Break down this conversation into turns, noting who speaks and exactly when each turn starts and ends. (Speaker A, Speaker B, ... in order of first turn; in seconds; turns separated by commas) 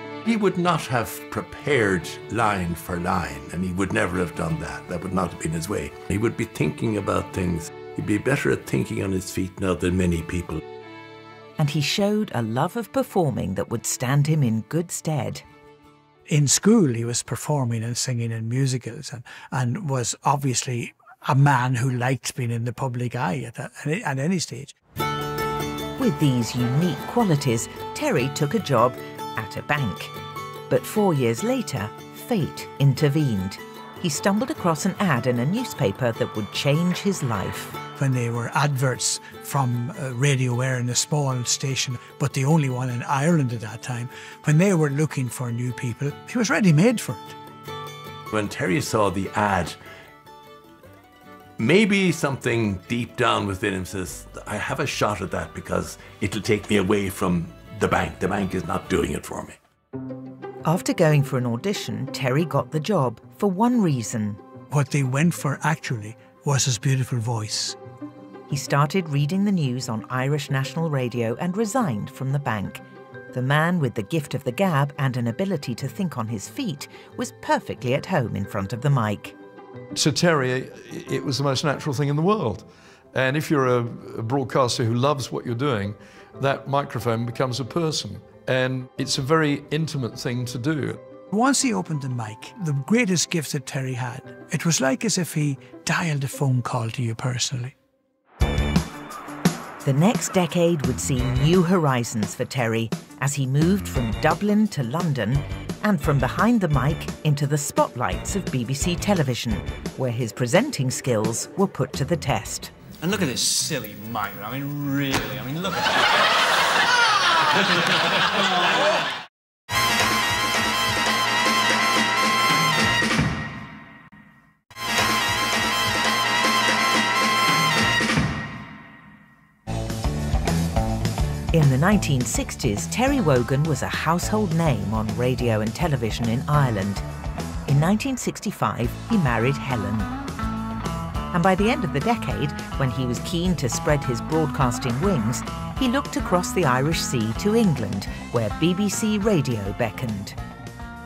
Speaker A: 0.3-1.0, Speaker A: 1.9-2.3, Speaker A: 3.1-3.5, Speaker A: 4.4-5.9, Speaker A: 6.6-7.8, Speaker A: 8.4-10.5, Speaker B: 11.6-15.4, Speaker C: 16.3-24.7, Speaker B: 26.0-30.1, Speaker B: 30.7-37.8, Speaker C: 38.0-47.4, Speaker D: 48.3-48.6, Speaker D: 51.6-52.2, Speaker D: 53.5-54.6, Speaker A: 55.2-57.4, Speaker A: 57.9-59.2, Speaker B: 60.6-64.4, Speaker C: 64.7-67.8, Speaker B: 68.5-79.3, Speaker D: 79.9-91.0, Speaker C: 91.3-97.7, Speaker B: 99.8-112.7, Speaker E: 113.0-116.1, Speaker E: 117.5-118.1, Speaker B: 131.5-137.0, Speaker B: 137.7-140.1, Speaker B: 141.3-150.4